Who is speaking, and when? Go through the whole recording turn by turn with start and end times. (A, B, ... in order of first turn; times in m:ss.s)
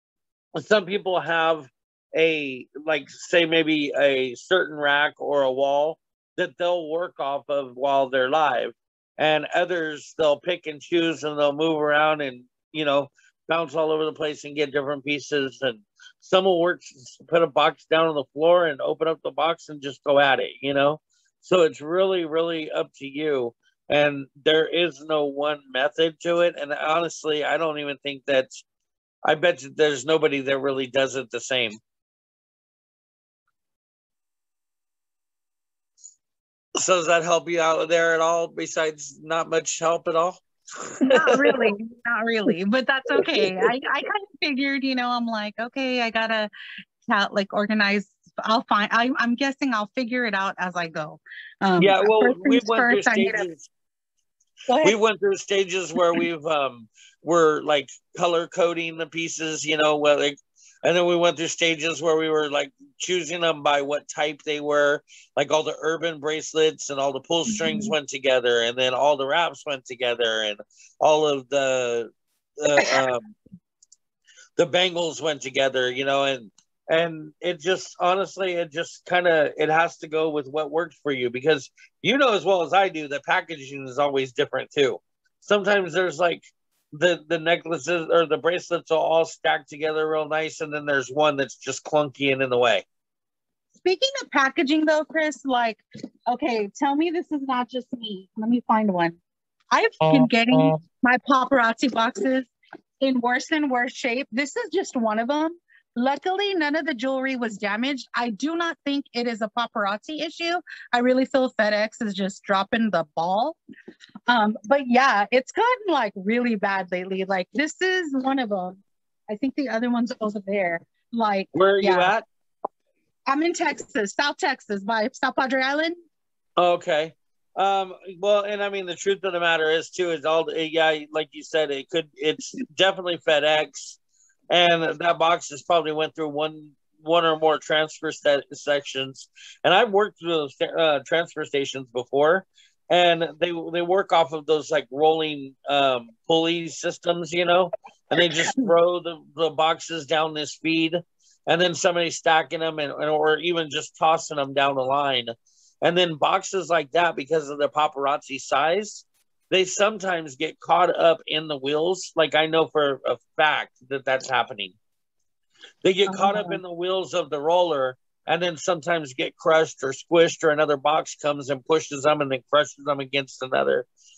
0:00.6-0:28.6 A
0:29.2-0:31.8 A
0:36.8-0:40.4 A
0:41.0-0:41.7 A
0:41.0-0:46.5 B
0:43.2-0:43.5 A
0:47.1-0:53.5 B
0:51.8-0:53.7 A
0:54.7-0:55.0 B
0:54.8-1:13.3 A
1:07.5-1:07.9 B
1:14.6-1:32.8 A
1:33.8-1:39.2 B
1:39.7-1:42.5 B
1:43.0-1:53.6 B
1:54.3-1:58.8 B
1:59.3-2:02.1 B
2:01.5-2:02.2 A
2:03.3-2:06.0 B
2:06.6-2:14.0 A
2:14.5-2:44.8 A
2:45.8-2:53.9 A
2:46.1-2:46.6 B